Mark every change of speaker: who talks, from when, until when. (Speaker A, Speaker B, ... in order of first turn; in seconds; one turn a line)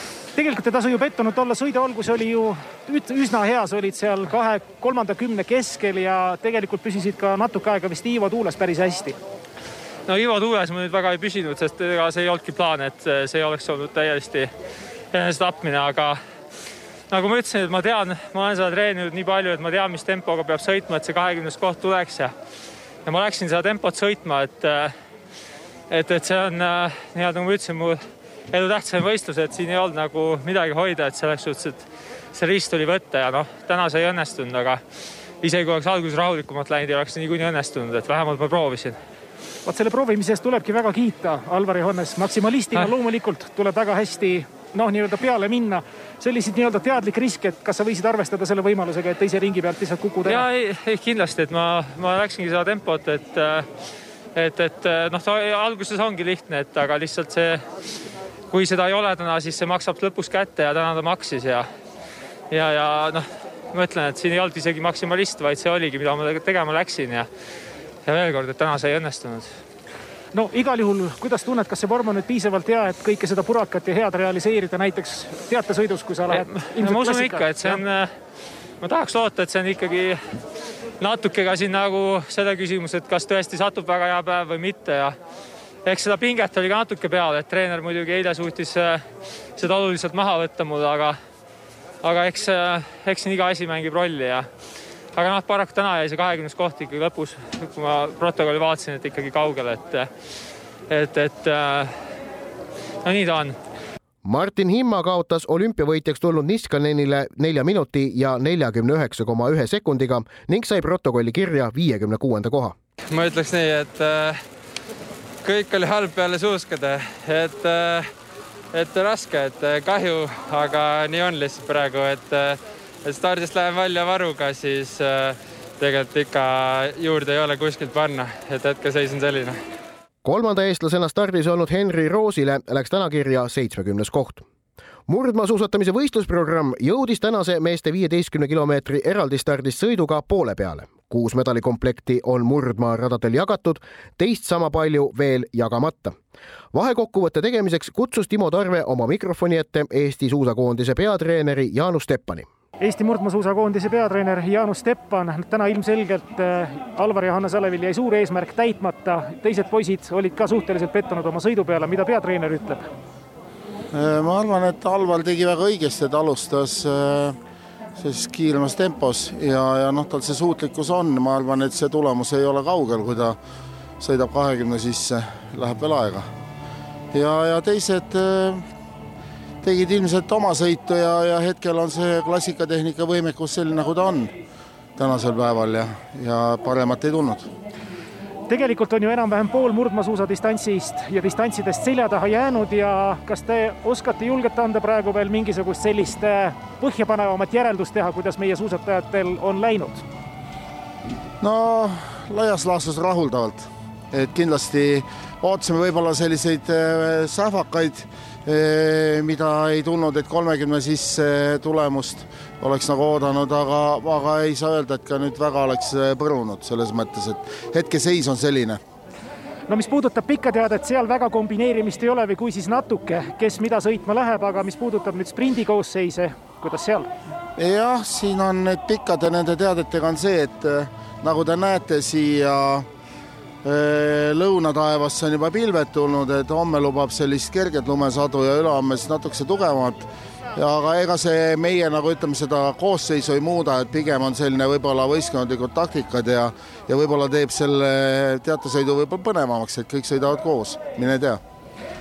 Speaker A: 0.3-9.2
Speaker B: 10.1-14.5
Speaker B: 15.1-16.2
Speaker B: 17.1-22.3
Speaker B: 23.1-24.9
Speaker B: 25.9-34.8
Speaker B: 35.4-39.0
Speaker A: 39.6-50.5
Speaker B: 50.2-53.7
Speaker B: 54.3-57.6
Speaker B: 58.5-61.7
Speaker B: 62.5-67.3
Speaker B: 68.0-69.5
Speaker A: 70.3-77.8
Speaker B: 76.3-78.1
Speaker B: 78.8-80.2
Speaker B: 81.0-85.2
Speaker B: 85.8-89.0
Speaker B: 89.6-91.2
Speaker B: 92.0-94.5
Speaker B: 95.1-100.1
Speaker B: 100.9-101.9
Speaker B: 103.0-103.6
Speaker C: 104.2-112.8
Speaker D: 113.1-114.4
Speaker D: 115.4-118.1
Speaker D: 118.7-129.6
Speaker C: 130.2-134.4
Speaker C: 135.1-146.2
Speaker C: 146.7-152.5
Speaker A: 152.8-162.9
Speaker E: 163.9-167.4
Speaker E: 168.0-173.4
Speaker E: 174.0-176.3
Speaker E: 177.1-178.6
Speaker E: 179.6-184.3
Speaker E: 184.9-187.5
Speaker A: 188.5-200.0
Speaker E: 201.4-218.8
Speaker A: 219.7-227.1
Speaker E: 227.6-232.9
Speaker E: 233.6-251.4